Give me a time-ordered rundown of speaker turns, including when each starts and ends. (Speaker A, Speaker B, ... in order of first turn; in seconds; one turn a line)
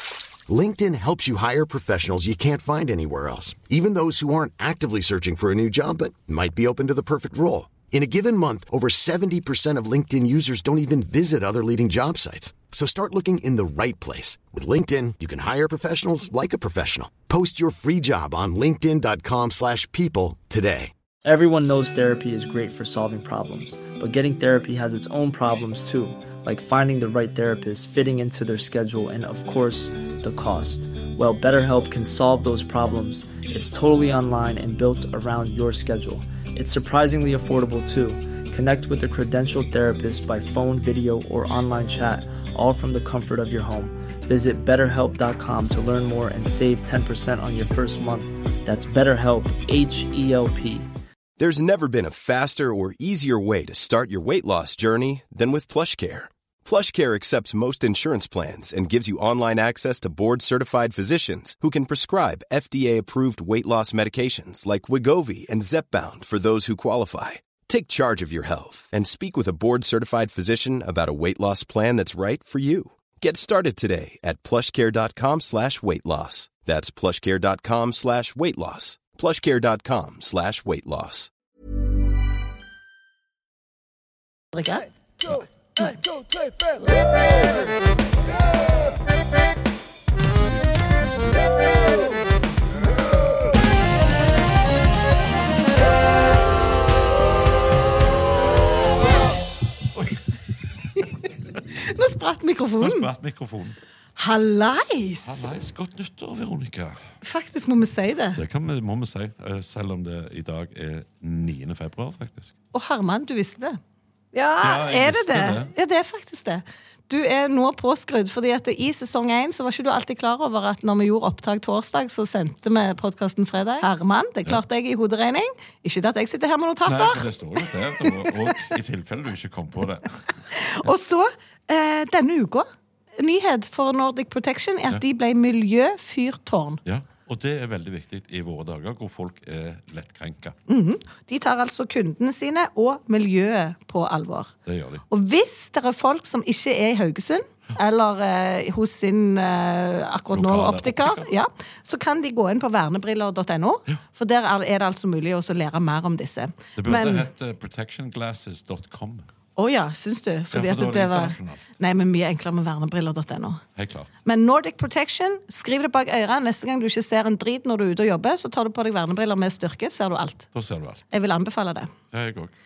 Speaker A: 0.5-20.9
Speaker B: 21.2-50.9
Speaker C: 51.4-81.3
Speaker D: 84.5-84.9
Speaker E: 100.0-100.2
Speaker D: 101.8-103.1
Speaker E: 102.8-103.8
Speaker D: 104.2-105.5
Speaker E: 105.2-107.0
Speaker D: 107.2-108.4
Speaker E: 108.4-112.5
Speaker D: 112.7-113.8
Speaker D: 114.3-127.3
Speaker E: 114.6-115.7
Speaker E: 126.9-130.2
Speaker D: 128.0-128.6
Speaker D: 130.5-132.7
Speaker D: 133.2-136.8
Speaker E: 136.8-140.6
Speaker D: 140.7-144.5
Speaker E: 144.7-145.1
Speaker D: 145.1-157.3
Speaker E: 150.3-151.3
Speaker E: 156.8-159.3
Speaker D: 159.6-163.6
Speaker E: 160.5-161.7
Speaker E: 163.8-164.1
Speaker D: 164.2-170.5
Speaker E: 170.5-171.1
Speaker D: 171.1-171.9
Speaker E: 172.1-172.5